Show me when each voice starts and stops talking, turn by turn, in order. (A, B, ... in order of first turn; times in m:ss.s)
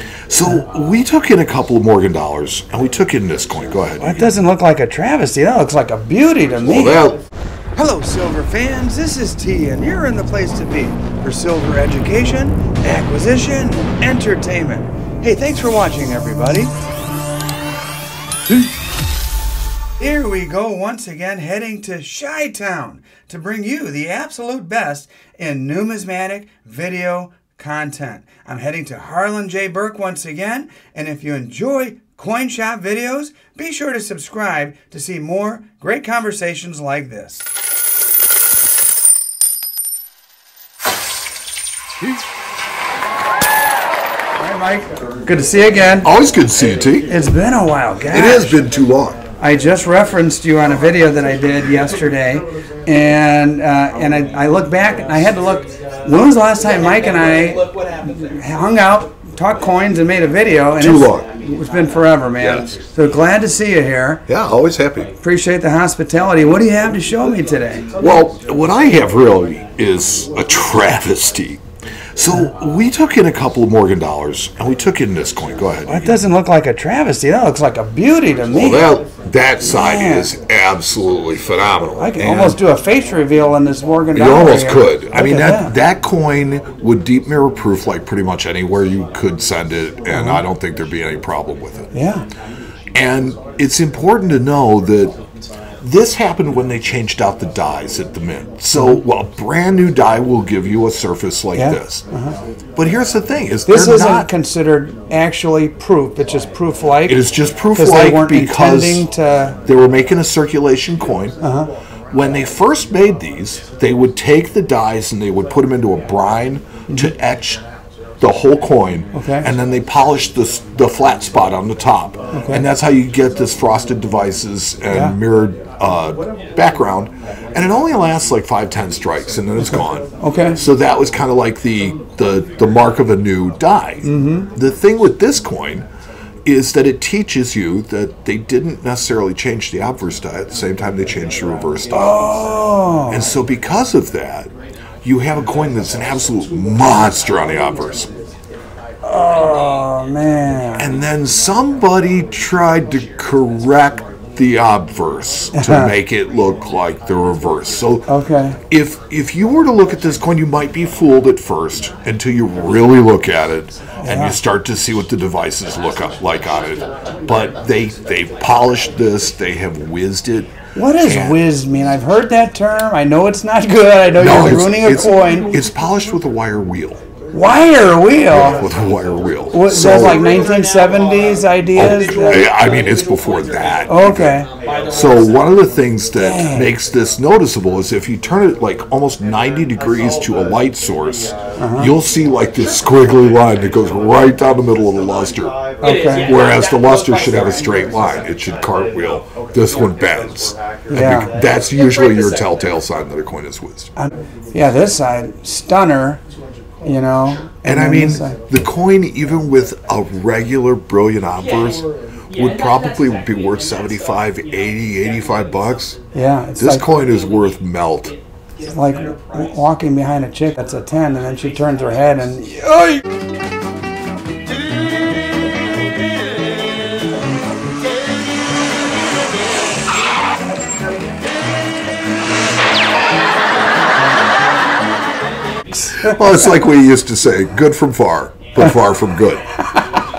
0:00.3-0:04.3 A
0:04.0-0:07.1 B
0:06.6-0:07.2 A
0:07.8-0:16.7 B
0:20.0-0:37.5 B
0:44.4-0:46.1 B
0:46.0-0:47.1 A
0:47.1-0:48.6 B
0:48.1-0:49.2 A
0:49.4-1:04.2 B
1:00.8-1:01.2 A
1:04.3-1:05.1 A
1:05.2-1:07.8 B
1:08.0-1:11.6 A
1:12.2-1:16.2 A
1:15.9-1:18.9 B
1:18.5-1:22.6 A
1:19.6-1:20.3 B
1:22.0-1:25.7 B
1:24.1-1:31.9 A
1:30.1-1:30.4 B
1:31.9-1:32.2 B
1:32.9-1:35.2 A
1:35.8-1:42.0 A
1:38.7-1:39.0 B
1:41.5-1:42.4 B
1:42.8-1:44.3 A
1:43.7-1:49.6 B
1:47.1-1:49.0 A
1:49.6-1:51.4 A
1:51.4-1:51.7 B
1:52.1-1:57.6 A
1:58.2-2:15.8 A
1:59.1-1:59.5 B
2:02.3-2:02.6 B
2:04.9-2:05.2 B
2:10.2-2:10.6 B
2:14.0-2:14.5 B
2:16.4-2:22.2 A
2:21.9-2:23.2 B
2:23.1-2:24.5 A
2:25.0-2:28.1 A
2:29.0-2:30.9 B
2:30.8-2:38.1 A
2:35.5-2:35.9 B
2:38.1-2:38.6 B
2:38.7-2:51.4 A
2:44.0-2:44.4 B
2:50.8-2:55.5 B
2:54.2-2:57.0 A
2:57.3-2:58.6 B
2:58.3-3:00.2 A
2:59.5-3:02.4 B
3:01.7-3:04.4 A
3:03.9-3:04.5 B
3:04.9-3:15.5 A
3:06.2-3:06.7 B
3:11.6-3:11.9 B
3:15.8-3:16.3 B
3:16.2-3:23.9 A
3:20.9-3:21.3 B
3:24.0-3:26.2 B
3:26.8-3:28.4 B
3:27.6-3:36.0 A
3:36.1-3:36.8 B
3:36.6-3:38.1 A
3:38.7-3:42.6 B
3:56.0-3:59.4 A
3:56.0-3:56.5 B
3:59.6-3:59.9 B